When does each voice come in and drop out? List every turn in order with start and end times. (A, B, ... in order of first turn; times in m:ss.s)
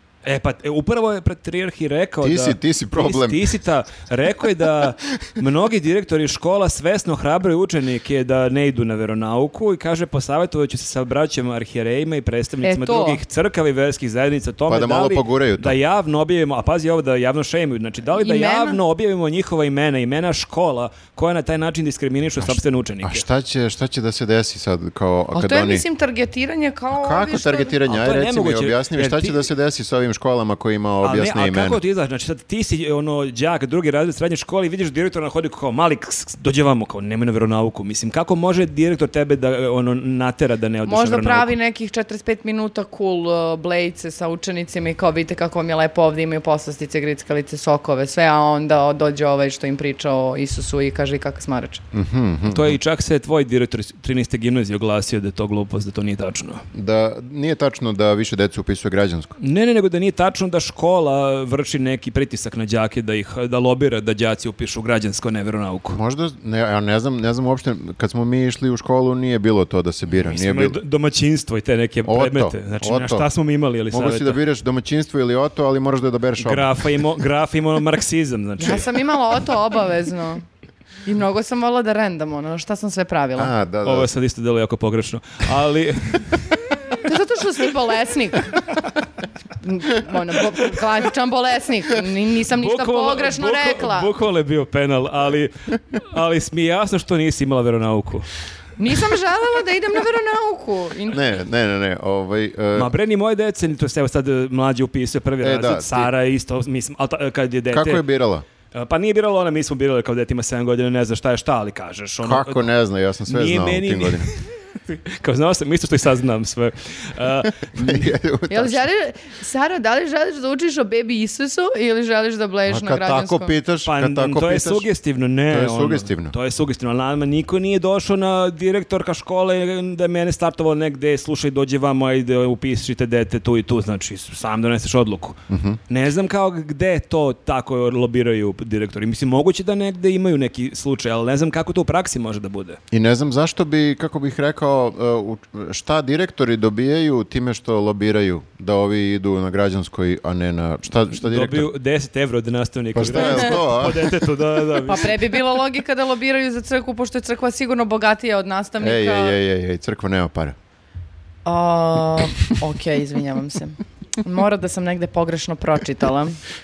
0:00.2-0:23.2 A
0:02.2-0:03.6 B
0:12.6-0:13.2 C
0:14.7-0:15.8 B
0:18.2-0:18.8 C
0:22.4-0:25.8 B
0:25.3-0:27.8 C
0:26.9-0:31.8 B
0:27.9-0:29.5 A
0:31.0-0:41.5 A
0:40.8-0:51.8 C
0:51.9-0:52.8 B
0:52.5-0:56.6 A
0:56.7-0:59.4 B
0:59.4-1:06.0 A
1:05.9-1:10.8 B
1:10.2-1:14.4 A
1:12.0-1:13.3 B
1:13.9-1:16.7 B
1:16.4-1:19.0 A
1:18.6-1:20.4 C
1:21.0-1:23.5 C
1:23.4-1:24.1 B
1:23.8-1:27.0 A
1:27.0-1:28.6 C
1:29.6-1:34.1 C
1:32.5-1:38.3 A
1:38.8-1:41.2 C
1:41.1-1:42.9 B
1:42.8-1:48.0 A
1:45.4-1:46.1 B
1:47.7-1:48.4 B
1:48.7-1:52.7 A
1:52.2-1:54.3 B
1:53.3-1:58.1 A
1:57.6-1:58.8 B
1:58.5-2:03.5 C
2:02.7-2:04.9 B
2:03.9-2:22.8 A
2:05.5-2:06.3 B
2:15.5-2:15.8 B
2:22.9-2:31.7 B
2:31.2-2:35.4 A
2:32.9-2:34.2 B
2:33.2-2:33.4 C
2:34.8-2:39.4 C
2:38.8-2:40.6 B
2:41.4-2:46.4 C